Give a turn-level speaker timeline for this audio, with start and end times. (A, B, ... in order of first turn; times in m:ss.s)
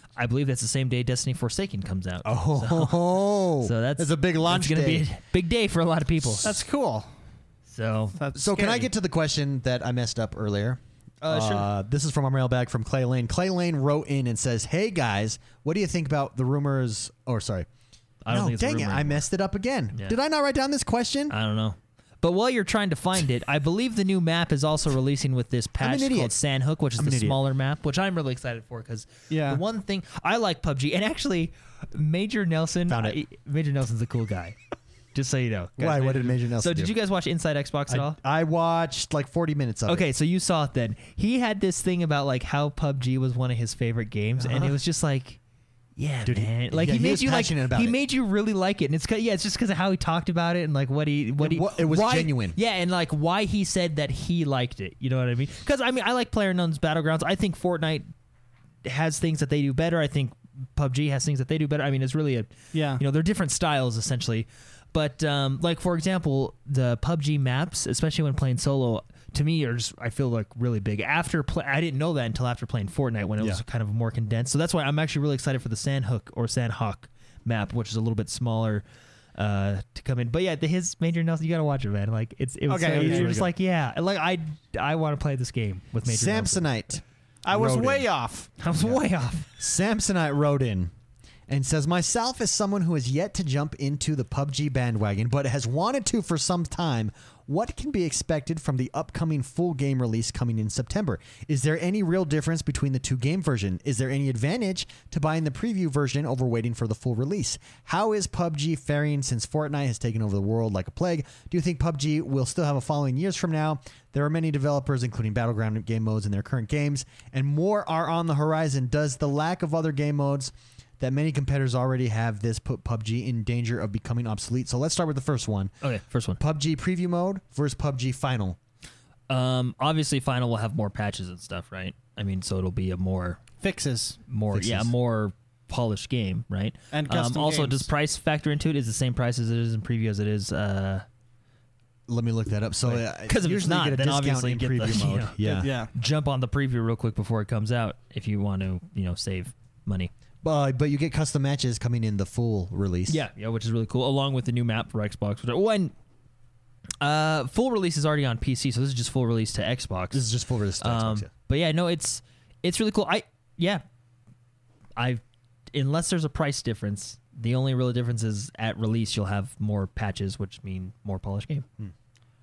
0:00.2-0:06.6 A
0:02.2-0:05.1 B
0:06.4-0:07.1 C
0:07.7-0:08.2 A
0:08.2-0:08.9 C
0:08.3-0:17.7 B
0:11.2-0:11.7 A
0:18.2-0:19.2 A
0:18.3-0:21.3 B
0:21.3-0:34.6 A
0:25.8-0:26.3 B
0:27.0-0:27.4 B
0:29.3-0:29.6 C
0:32.9-0:33.2 B
0:35.1-0:38.2 A
0:35.8-0:36.9 B
0:37.9-0:40.0 B
0:39.9-0:45.4 A
0:44.4-0:44.8 B
0:46.0-0:58.1 A
0:46.2-0:48.0 B
0:51.4-0:52.6 B
0:58.8-1:18.8 A
1:02.7-1:03.0 C
1:19.4-1:26.7 A
1:22.7-1:23.4 C
1:22.9-1:23.5 B
1:26.0-1:28.0 B
1:27.4-1:28.5 C
1:28.6-1:29.5 A
1:28.8-1:30.9 B
1:31.5-2:05.7 B
2:05.8-2:06.4 A
2:06.4-2:08.6 B
2:09.3-2:13.4 A
2:13.6-2:14.2 C
2:14.3-2:21.0 A
2:14.5-2:14.9 B
2:16.9-2:17.9 C
2:22.1-2:25.7 B
2:22.8-2:30.1 A
2:25.6-2:25.9 C
2:30.4-2:33.2 B
2:33.1-2:35.9 A
2:37.0-2:40.2 A
2:40.1-2:41.3 B
2:40.8-2:43.8 A
2:45.0-2:45.2 A
2:45.7-2:51.7 A